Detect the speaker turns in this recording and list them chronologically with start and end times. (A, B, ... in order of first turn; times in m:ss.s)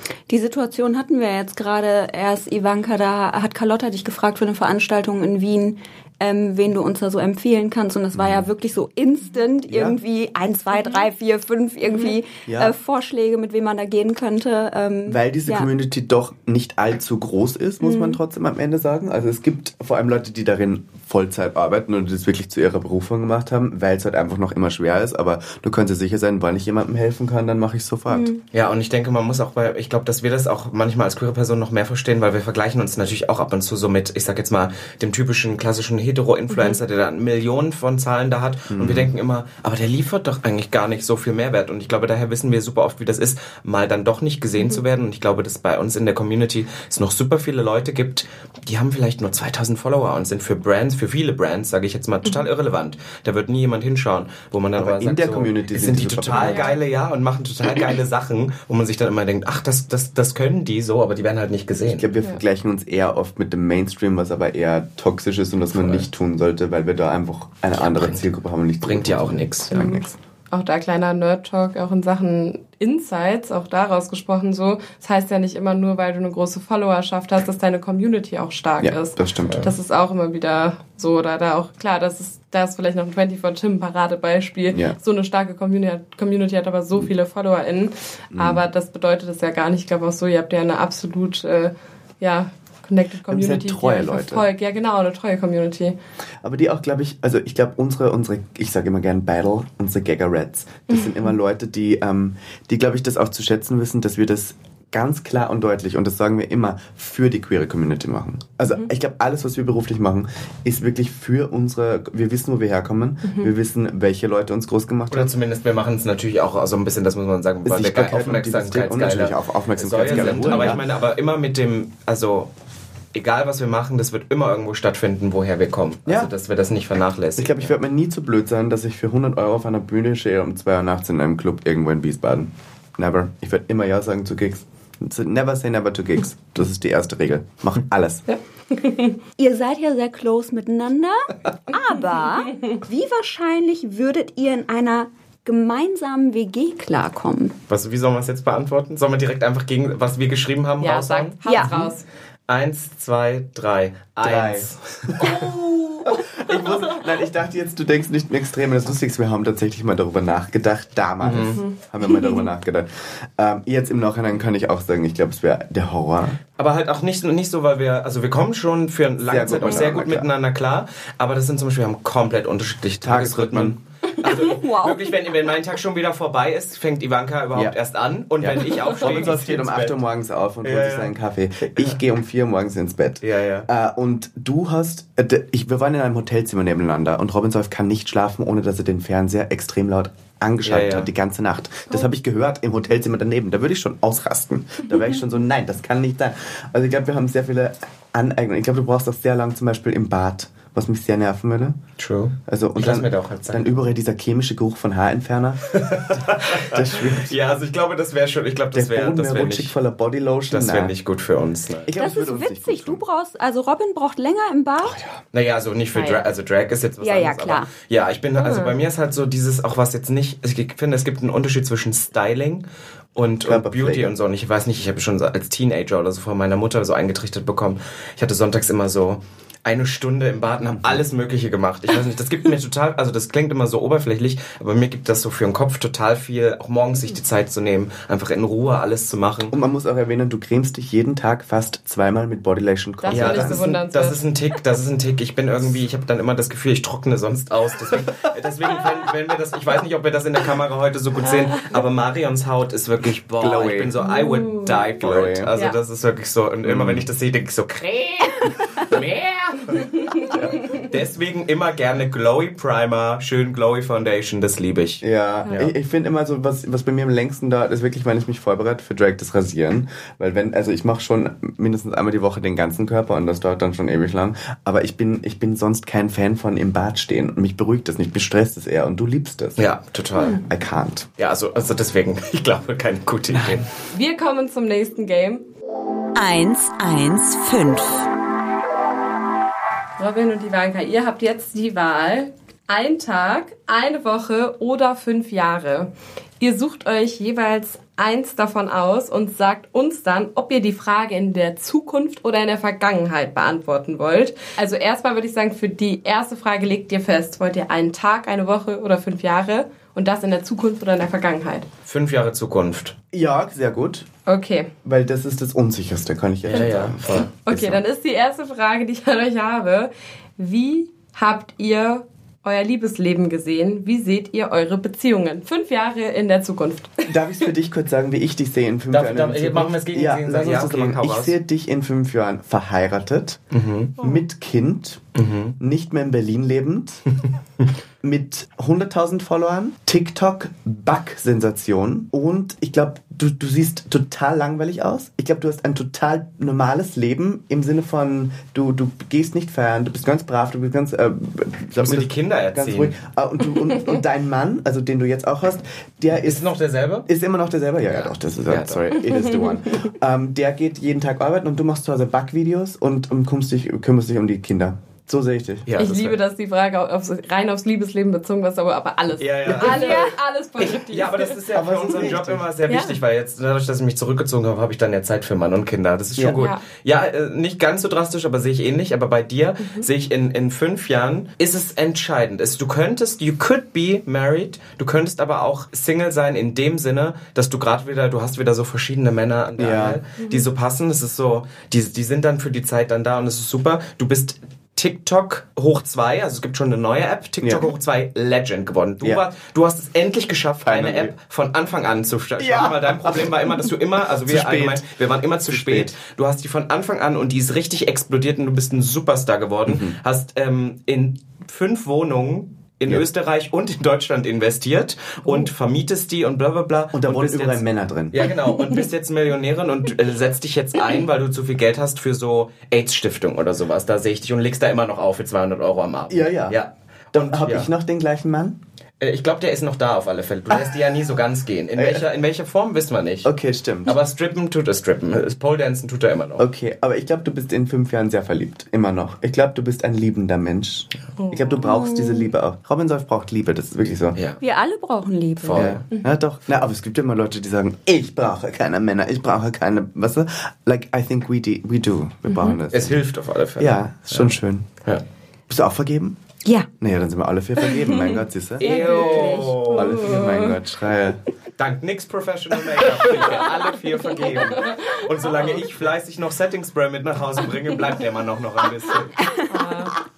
0:00.3-0:15.7 A
0:08.1-0:08.4 B
0:09.7-0:10.0 B
0:11.9-0:12.2 C
0:12.4-0:12.7 B
0:15.0-0:28.3 B
0:17.8-0:18.2 A
0:28.1-0:28.4 A
0:28.5-1:02.1 D
0:36.5-0:36.8 C
0:38.7-0:39.1 B
0:54.8-0:56.6 B
0:56.3-0:56.8 C
1:01.9-1:10.2 B
1:05.7-1:06.0 D
1:07.7-1:08.2 D
1:08.8-1:09.8 D
1:09.7-1:36.0 C
1:18.8-1:19.7 B
1:24.7-1:25.0 B
1:28.3-1:28.6 B
1:33.3-1:34.4 B
1:36.4-1:55.3 B
1:40.9-1:41.2 C
1:55.1-2:02.5 D
1:57.6-2:00.8 B
2:00.1-2:00.8 C
2:03.1-2:07.7 D
2:06.0-2:06.3 B
2:07.4-2:18.2 B
2:18.3-2:19.2 C
2:19.4-2:27.5 A
2:27.7-2:31.9 D
2:30.8-2:32.0 C
2:32.5-2:35.4 D
2:34.2-2:35.5 B
2:35.2-2:36.4 C
2:36.0-2:46.4 B
2:41.2-2:41.6 D
2:41.6-2:42.5 C
2:46.6-3:00.0 D
2:49.2-2:50.3 B
2:53.0-2:53.8 B
2:54.2-2:55.2 A
2:58.4-3:21.8 B
3:00.6-3:01.1 D
3:03.2-3:03.7 D
3:10.6-3:11.1 D
3:22.0-3:23.8 D
3:22.5-3:27.3 B
3:25.7-3:29.7 D
3:28.7-3:30.9 B
3:30.5-3:31.9 D
3:31.8-3:33.0 B
3:32.0-3:35.0 A
3:35.3-3:59.5 D
3:35.9-3:36.2 C
3:37.0-3:37.7 A
3:38.4-3:38.8 C
3:43.4-3:44.1 B
3:59.5-4:03.7 B
4:03.0-4:04.2 C
4:03.1-4:25.7 D
4:13.4-4:13.9 B
4:14.0-4:14.9 C
4:15.0-4:15.5 B
4:16.6-4:17.1 B
4:20.3-4:20.6 B
4:25.0-4:39.6 B
4:39.6-4:40.4 D
4:40.3-4:41.1 B
4:41.2-4:43.7 D
4:43.3-4:43.6 B
4:43.9-4:45.4 C
4:46.1-4:48.1 E
4:50.0-5:11.7 C
5:11.8-5:13.0 D
5:13.1-5:14.1 B
5:14.3-5:14.7 C
5:14.8-5:17.8 B
5:16.5-5:17.3 D
5:17.4-5:27.1 C
5:27.0-5:33.4 B
5:28.9-5:31.4 D
5:33.5-5:33.9 D
5:34.0-5:35.0 B
5:35.1-5:35.6 D
5:35.6-5:37.0 B
5:38.0-5:56.5 B
5:51.7-5:53.0 D
5:56.1-5:57.1 D
5:57.0-6:05.7 B
5:57.8-5:58.9 D
5:59.1-5:59.6 C
6:05.6-6:06.2 D
6:05.8-6:11.4 C
6:09.2-7:07.7 D
6:11.5-6:12.4 B
6:12.7-6:13.0 C
6:16.3-6:16.6 C
6:19.6-6:19.9 C
6:29.6-6:30.0 B
6:37.4-6:37.7 B
6:40.6-6:41.1 B
6:42.4-6:45.9 B
6:49.6-6:50.0 B
6:56.9-6:58.3 B
7:06.1-7:06.6 B
7:07.1-7:08.6 B
7:09.0-7:13.3 D
7:11.7-7:12.1 B
7:13.2-7:14.0 B
7:13.8-7:16.5 D
7:16.4-7:24.2 B
7:21.2-7:22.0 C
7:24.1-7:24.4 D
7:24.4-7:25.8 A
7:25.4-7:25.8 D
7:25.5-7:33.0 B
7:32.3-7:32.6 C
7:32.7-7:35.0 D
7:33.6-7:34.7 B
7:35.5-7:36.2 B
7:36.7-7:41.2 B
7:37.8-7:40.6 C
7:38.6-7:39.9 D
7:41.6-7:49.2 D
7:44.4-7:45.4 C
7:49.5-7:50.0 C